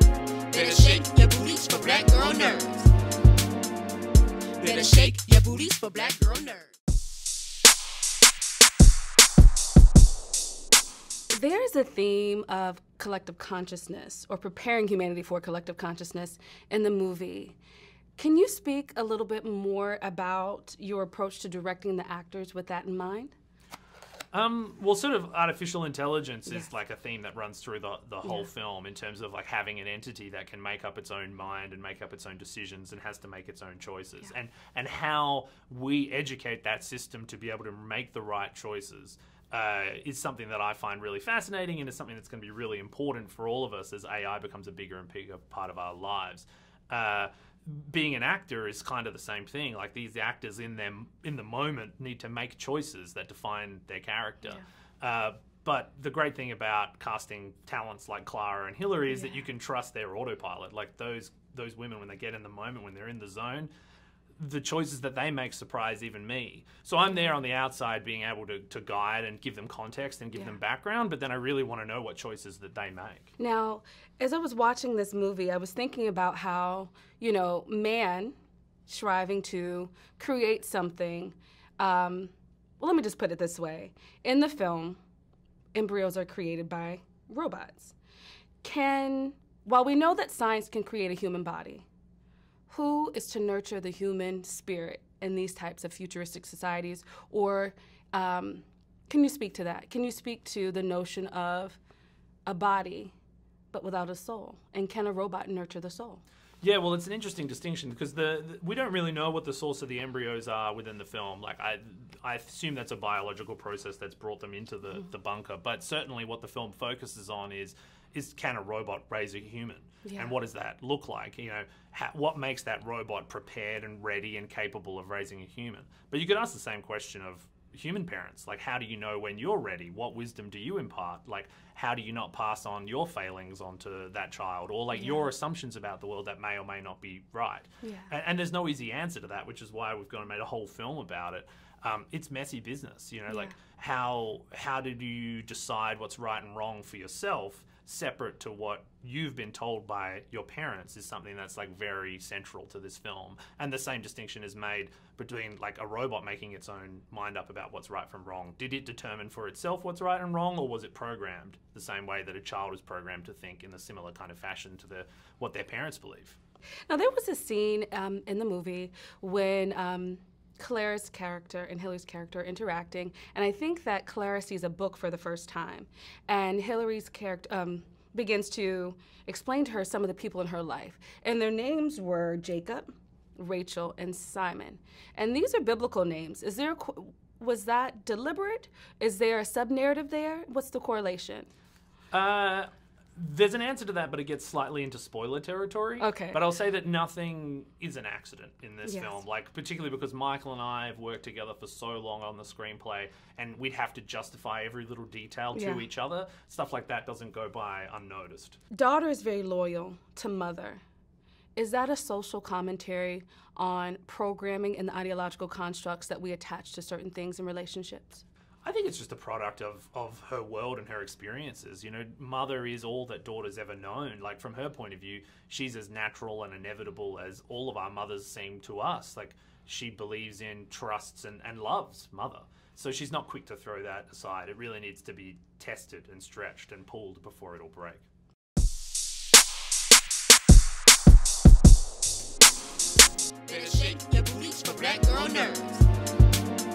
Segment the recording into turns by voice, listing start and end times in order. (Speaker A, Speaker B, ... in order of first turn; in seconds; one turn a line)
Speaker A: 0.5-2.9
Speaker A: 4.6-6.7
Speaker B: 11.3-17.6
Speaker B: 18.2-23.3
Speaker C: 24.3-63.7
Speaker B: 59.1-59.4
Speaker C: 64.4-73.3
Speaker B: 73.4-78.3
Speaker B: 78.9-85.0
Speaker B: 85.7-87.9
Speaker B: 88.6-91.8
Speaker B: 92.7-101.8
Speaker B: 102.5-103.1
Speaker B: 103.7-106.2
Speaker C: 106.6-166.4
Speaker B: 120.0-120.4
Speaker B: 134.9-135.3
Speaker B: 137.8-138.1
Speaker B: 143.3-143.5
Speaker B: 166.9-191.5
Speaker C: 192.1-208.6
Speaker B: 196.0-196.4
Speaker B: 198.8-199.2
Speaker B: 205.5-205.8
Speaker B: 208.7-210.8
Speaker B: 211.6-218.2
Speaker C: 218.6-238.0
Speaker A: 243.4-245.8